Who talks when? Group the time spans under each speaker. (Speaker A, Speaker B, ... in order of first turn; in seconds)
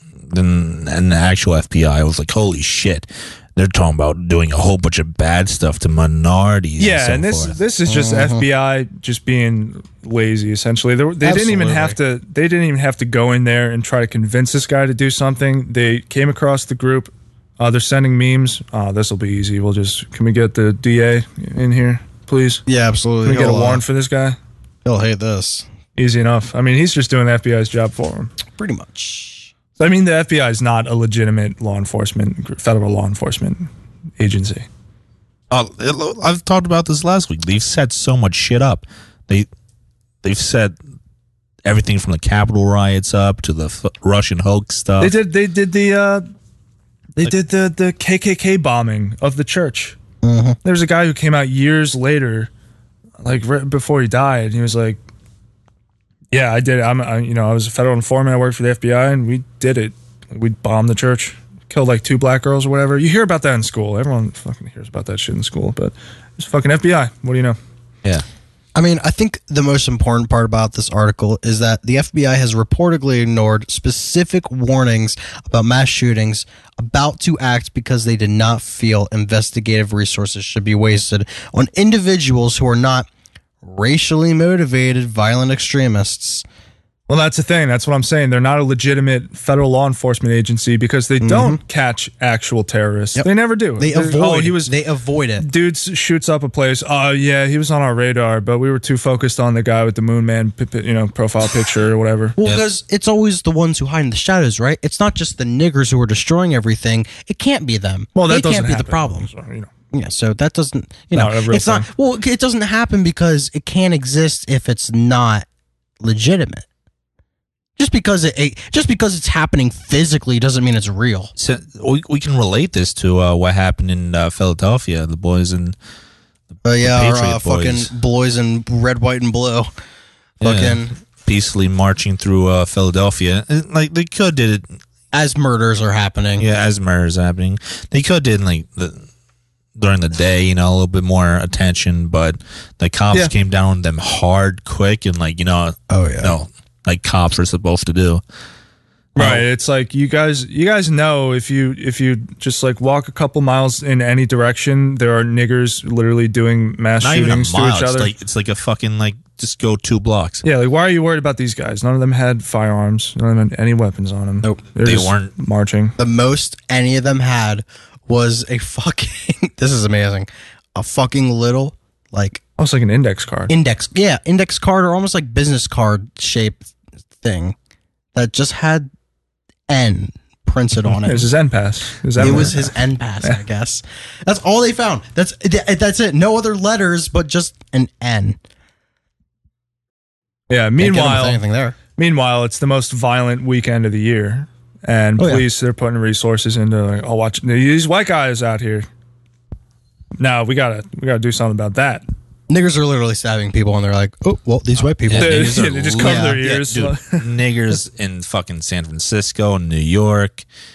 Speaker A: 0.3-7.6, 35.5-39.5, 40.2-40.8, 41.6-45.2, 102.4-102.7, 121.4-125.8, 126.8-127.9, 130.4-134.8, 136.4-139.1, 139.8-148.2, 149.2-149.4, 157.0-160.4, 164.8-165.3, 205.0-210.4
Speaker B: 6.8-22.6, 23.2-24.4, 26.0-28.3, 29.8-33.7, 34.2-34.7, 45.0-46.2, 47.2-50.0, 50.6-52.5, 53.2-55.0, 56.3-67.6, 87.1-94.7, 95.4-102.4, 108.2-109.7, 111.1-111.9, 149.2-158.1, 160.4-166.0, 172.6-173.5, 180.8-183.4, 190.5-191.4, 192.0-198.9, 200.2-202.0, 205.1-207.3
Speaker C: 7.9-8.5, 11.2-12.0, 22.7-23.8, 24.9-25.7, 28.6-29.5, 50.2-50.6, 68.8-83.1, 83.6-86.5, 91.2-91.6, 93.2-95.5, 102.4-109.3, 109.9-115.5, 116.0-116.7, 117.8-121.3, 126.7-129.7, 130.4-130.9, 135.1-136.4, 145.9-146.3, 166.0-172.4, 173.5-176.7, 177.2-177.6, 178.2-178.9, 179.7-181.3, 182.2-188.4, 190.8-191.8, 195.2-195.5, 202.5-206.4